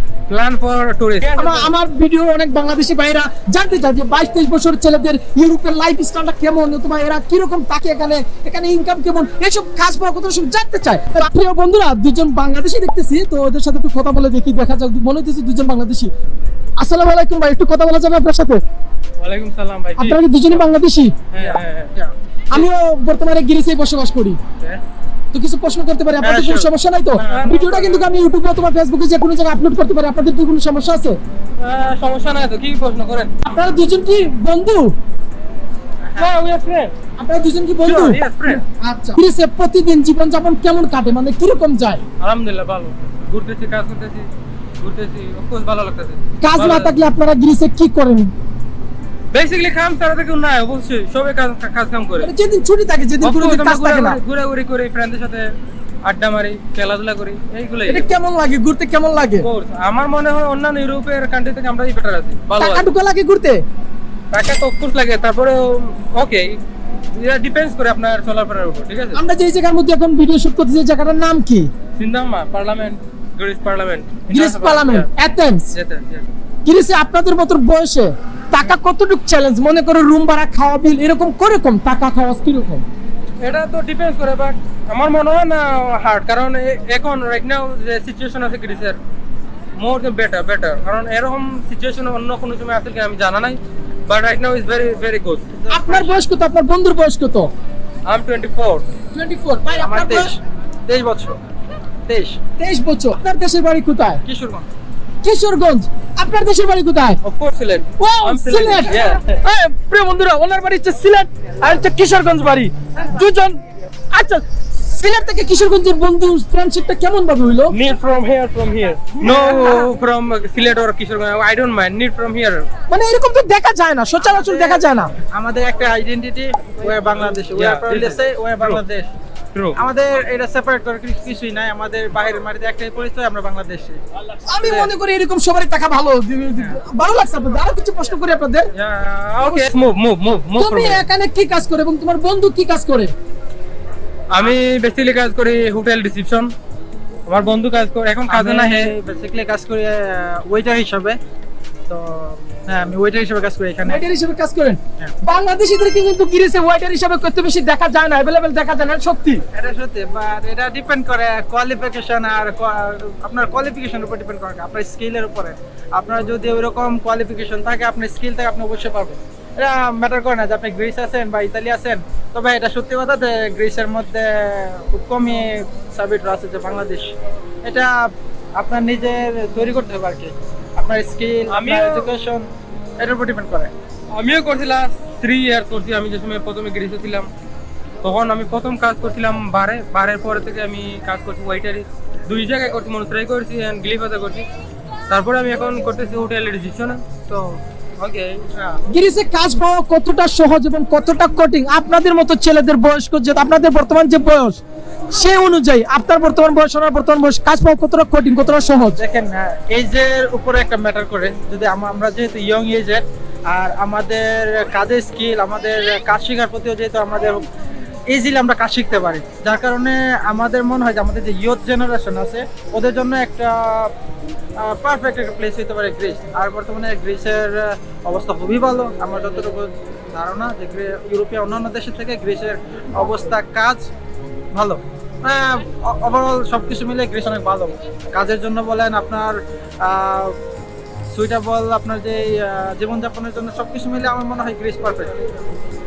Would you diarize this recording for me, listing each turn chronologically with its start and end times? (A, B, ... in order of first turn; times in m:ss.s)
0:00.3-0:01.7 A
0:01.4-0:16.1 B
0:16.8-0:18.6 B
0:19.2-0:20.2 A
0:20.0-0:21.2 B
0:21.3-0:21.9 A
0:21.4-0:22.1 C
0:22.5-0:24.4 B
0:25.3-0:31.2 B
0:26.2-0:27.4 C
0:27.3-0:28.1 A
0:31.6-0:33.3 A
0:33.4-0:34.9 B
0:36.2-0:36.9 A
0:37.2-0:42.0 B
0:37.8-0:38.6 A
0:42.2-0:44.3 A
0:44.8-0:47.0 A
0:46.4-0:48.3 B
0:49.3-0:52.3 A
0:52.2-0:54.2 B
0:53.2-0:55.5 A
0:56.0-0:58.1 A
0:57.9-0:59.5 B
0:59.4-1:02.9 A
1:02.6-1:03.6 B
1:04.3-1:06.6 A
1:07.1-1:09.2 A
1:09.1-1:11.7 B
1:12.0-1:15.1 A
1:14.3-1:15.7 B
1:15.7-1:16.3 A
1:16.6-1:22.8 B
1:23.4-1:29.0 A
1:29.8-1:35.5 A
1:35.5-1:36.2 C
1:35.7-1:37.5 B
1:38.1-1:38.8 A
1:39.1-1:40.3 B
1:39.8-1:40.3 C
1:40.9-1:41.4 C
1:42.1-1:42.4 C
1:42.6-1:44.2 B
1:44.2-1:44.7 C
1:45.2-1:47.2 B
1:47.2-1:49.2 A
1:48.0-1:53.6 B
1:49.0-1:49.4 C
1:54.1-1:57.8 B
1:57.7-2:02.6 A
2:02.9-2:05.1 B
2:04.2-2:09.1 C
2:07.6-2:08.8 A
2:09.5-2:09.8 A
2:09.8-2:14.0 C
2:14.5-2:18.7 B
2:14.6-2:14.9 C
2:18.8-2:21.0 A
2:20.6-2:23.1 B
2:24.3-2:26.5 A
2:27.3-2:28.9 A
2:28.3-2:31.2 C
2:31.9-2:34.0 C
2:33.9-2:39.4 B
2:39.5-2:57.1 C
2:57.6-2:57.9 C
2:58.6-3:02.4 C
3:01.5-3:02.1 A
3:03.0-3:03.7 C
3:04.1-3:07.3 A
3:08.0-3:14.4 A
3:15.1-3:17.0 A
3:17.3-3:17.6 C
3:18.0-3:18.4 A
3:18.5-3:18.8 C
3:18.9-3:29.0 B
3:29.0-3:37.4 C
3:38.1-3:43.9 C
3:44.6-3:53.8 C
3:54.5-4:00.3 C
4:01.1-4:05.1 C